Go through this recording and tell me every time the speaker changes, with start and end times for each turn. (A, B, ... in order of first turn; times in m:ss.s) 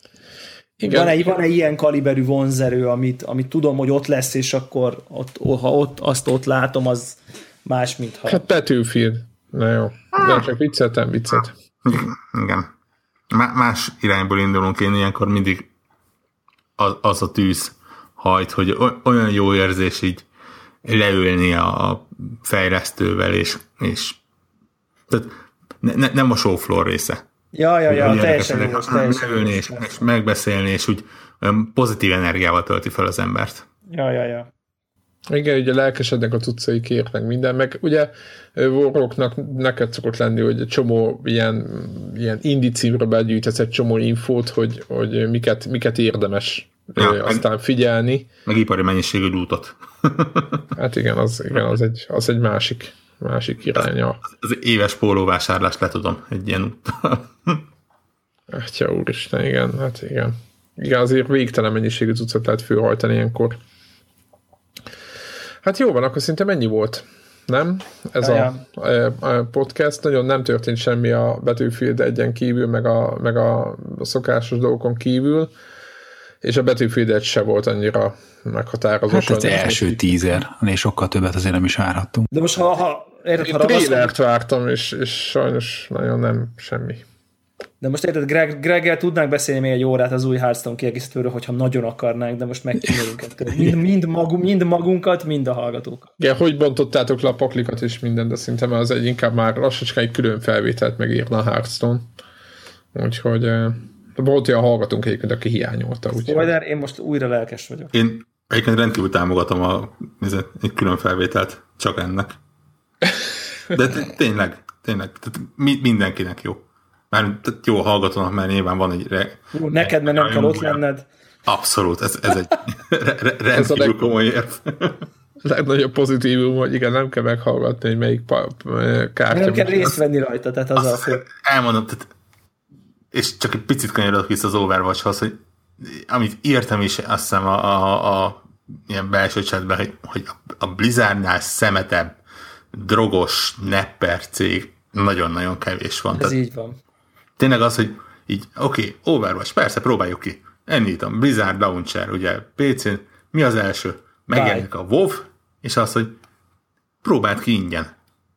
0:00.8-0:01.3 A
0:00.8-0:08.4 B
0:08.3-0:11.6 A
0:10.2-0:10.5 C
0:11.8-0:12.7 C
0:13.3-0:15.7 C
0:16.8-0:20.2 C
0:20.8-0:24.2 C
0:25.1-0:27.2 C
0:27.5-0:30.0 B
0:27.9-0:33.7 C
0:33.9-0:34.5 B
0:35.3-0:48.3 A
0:47.0-0:47.4 C
0:48.5-0:50.6 C
0:50.7-0:54.2 A
0:54.3-0:57.6 C
0:58.5-1:03.6 A
1:05.6-1:15.5 A
1:08.2-1:08.6 B
1:16.4-1:20.0 A
1:19.1-1:22.3 D
1:22.3-1:24.1 B
1:23.4-1:27.0 A
1:27.8-1:36.1 B
1:36.2-1:42.1 A
1:42.9-1:46.5 A
1:46.2-1:47.9 B
1:47.9-1:52.4 C
1:53.7-2:00.8 C
1:59.5-2:01.1 B
2:01.5-2:05.1 C
2:03.5-2:04.0 A
2:05.4-2:10.0 A
2:09.3-2:11.2 B
2:10.8-2:12.1 C
2:13.1-2:22.2 C
2:22.7-2:26.4 C
2:26.1-2:26.8 B
2:27.4-2:36.2 C
2:34.3-2:34.7 B
2:37.0-2:38.0 C